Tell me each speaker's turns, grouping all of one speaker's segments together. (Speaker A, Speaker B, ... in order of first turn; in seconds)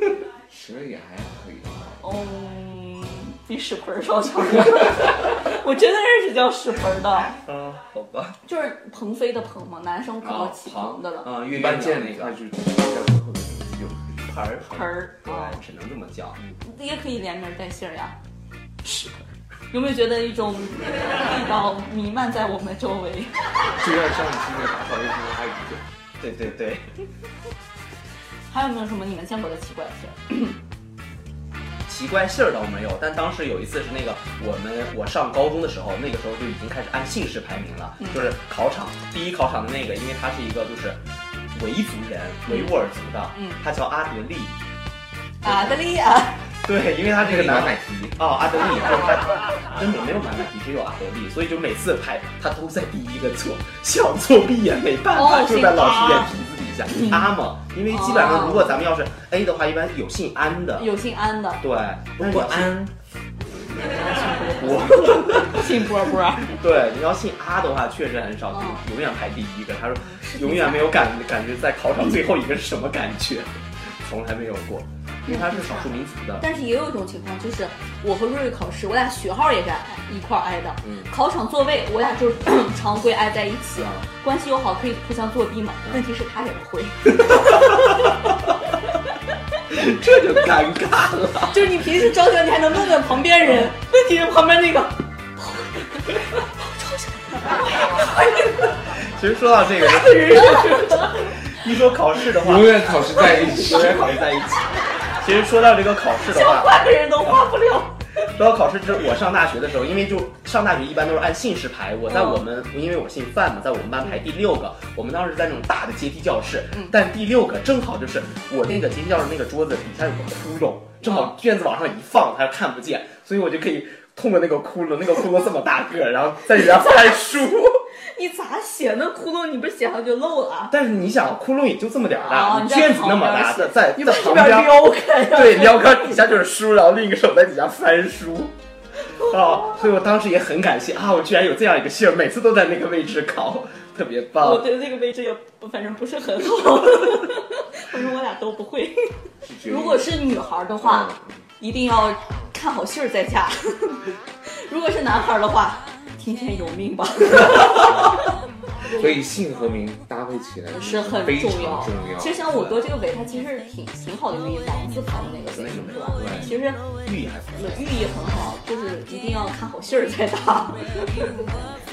Speaker A: 0.5-2.0, 11.4-14.3, 23.8-25.8, 47.2-48.2, 62.2-62.9, 102.3-104.2, 149.4-150.1, 150.8-151.4, 158.9-162.6
Speaker B: 2.0-7.4, 8.4-11.3, 14.7-15.6, 16.6-18.1, 18.8-19.1, 19.7-23.3, 28.5-30.6, 38.0-38.3, 42.5-42.7, 43.3-43.6, 45.4-46.4, 55.1-56.3, 56.9-57.2, 57.9-58.8, 60.8-61.6, 63.7-66.6, 68.5-68.8, 70.1-71.0, 75.2-88.3, 91.4-98.8, 99.8-101.6, 103.1-104.2, 106.2-108.0, 112.1-112.4, 121.0-121.3, 126.6-127.2, 128.0-130.7, 132.2-136.2, 139.1-139.8, 144.4-149.0, 149.6-158.3, 158.9-159.2, 160.7-166.8, 167.6-171.3
Speaker C: 7.4-8.4, 10.2-12.3, 14.2-16.4, 26.2-26.9, 31.9-41.0, 41.5-44.5, 45.4-45.8, 46.6-60.9, 61.6-62.8, 64.6-65.7, 66.4-76.4, 80.8-81.1, 83.8-84.1, 87.2-88.0, 89.7-91.8, 99.0-107.3, 108.2-127.8, 130.7-138.5, 139.1-144.7, 165.5-167.9